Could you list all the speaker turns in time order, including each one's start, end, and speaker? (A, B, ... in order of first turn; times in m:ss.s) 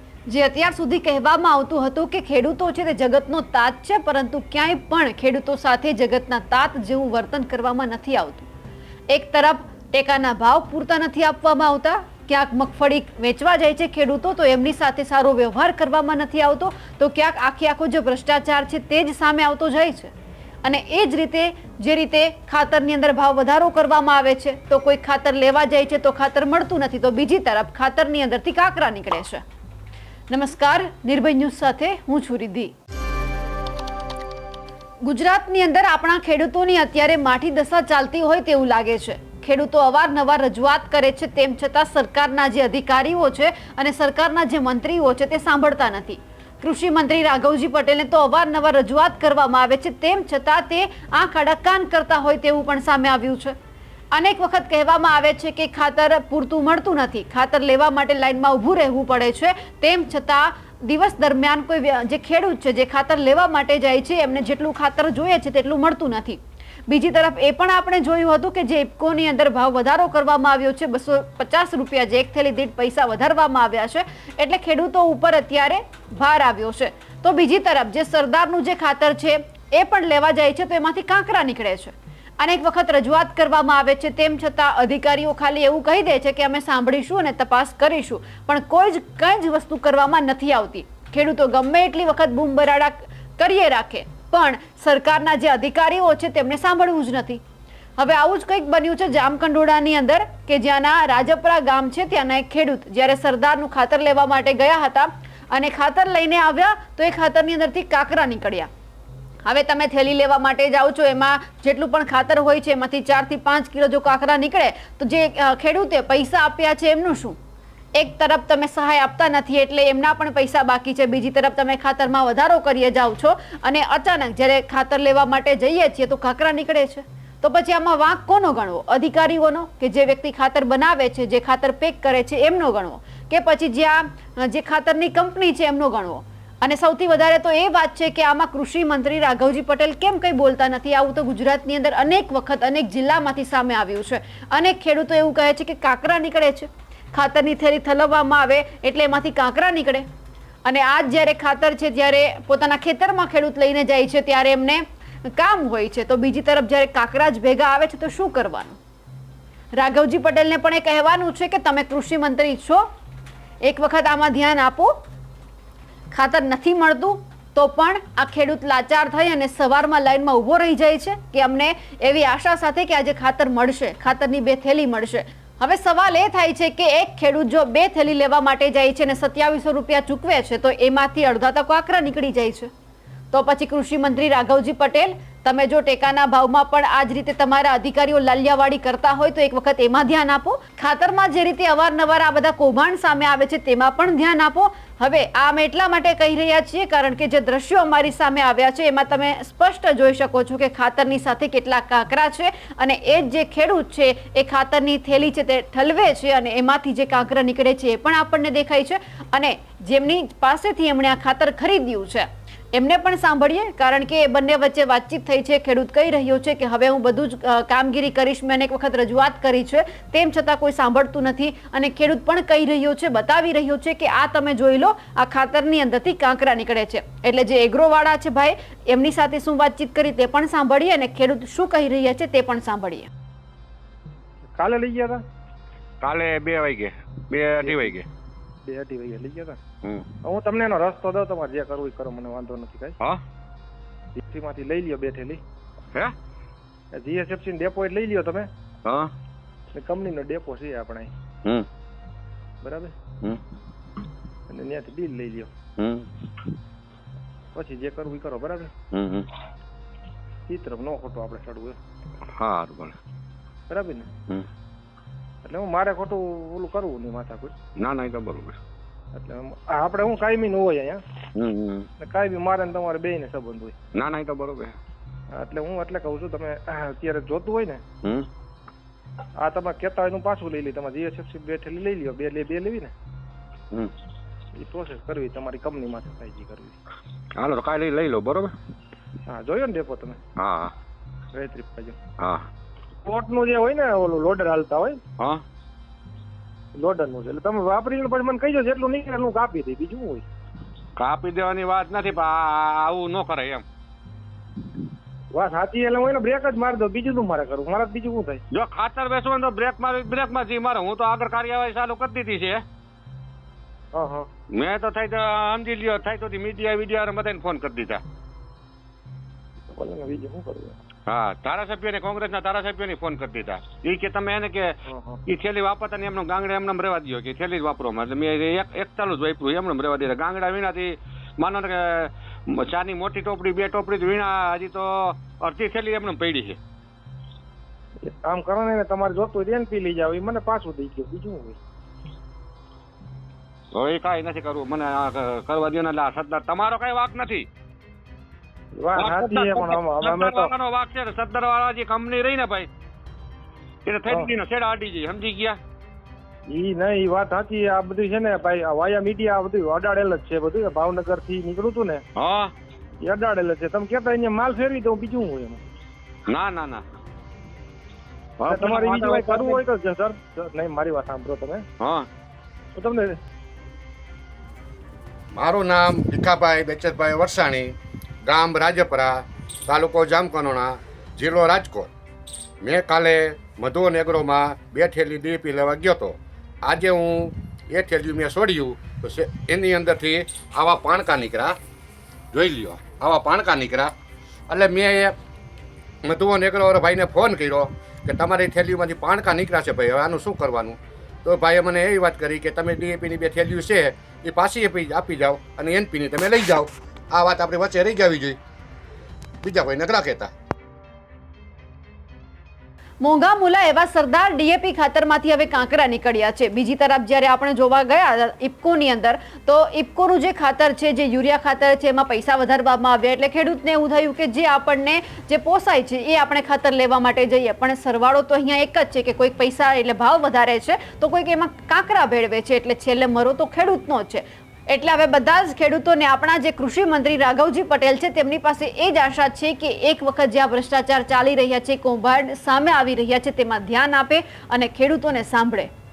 0:00.3-0:08.5 A
0:09.1-0:20.1 A
0:20.6-0:29.4 A
0:30.3-0:32.7 A
0:35.0-0:53.5 A
0:54.1-1:37.4 A
1:38.0-1:48.7 A
1:49.4-1:57.4 A
1:58.0-2:30.0 A
2:30.6-2:38.8 A
2:39.8-2:42.8 A
2:43.6-2:44.9 A
2:46.1-3:02.7 A
3:03.3-3:53.1 A
3:54.6-3:55.2 B
3:56.0-3:58.0 C
3:57.6-3:58.0 B
3:58.6-3:59.6 B
4:00.2-4:03.0 B
4:04.1-4:05.4 B
4:06.9-4:08.5 B
4:08.8-4:09.1 C
4:09.7-4:11.1 B
4:12.6-4:12.9 B
4:14.5-4:15.5 B
4:15.8-4:16.1 C
4:17.5-4:18.7 B
4:18.9-4:19.3 C
4:20.5-4:21.8 B
4:22.3-4:23.0 C
4:23.7-4:24.1 B
4:25.4-4:27.5 B
4:27.8-4:28.6 C
4:29.1-4:31.0 B
4:31.4-4:31.9 C
4:32.0-4:33.7 B
4:33.9-4:34.8 C
4:35.3-4:37.8 B
4:38.0-4:38.3 C
4:39.4-4:42.9 B
4:44.5-4:46.8 B
4:47.4-4:48.5 C
4:49.3-4:50.2 B
4:50.4-4:50.7 C
4:51.3-4:52.0 B
4:52.2-4:52.4 C
4:53.0-4:55.0 B
4:56.8-5:00.2 B
5:01.0-5:03.6 C
5:05.3-5:08.4 B
5:08.5-5:12.6 C
5:13.9-5:14.3 B
5:14.5-5:18.0 C
5:19.7-5:20.8 B
5:21.1-5:24.7 C
5:24.9-5:25.2 B
5:25.2-5:36.6 C
5:38.0-5:41.6 B
5:43.7-5:47.5 C
5:48.7-5:50.5 B
5:49.0-5:52.7 C
5:53.8-5:55.6 C
5:54.1-5:54.3 B
5:56.5-6:02.0 B
6:02.2-6:02.5 C
6:03.0-6:05.6 B
6:06.3-6:06.8 C
6:08.4-6:09.6 C
6:08.5-6:11.6 B
6:11.8-6:12.1 C
6:12.7-6:13.2 B
6:15.3-6:17.7 D
6:18.2-6:21.9 D
6:22.6-6:31.6 D
6:32.3-6:33.9 D
6:34.5-6:35.1 D
6:36.0-6:48.4 D
6:49.4-6:50.3 D
6:53.0-7:25.7 A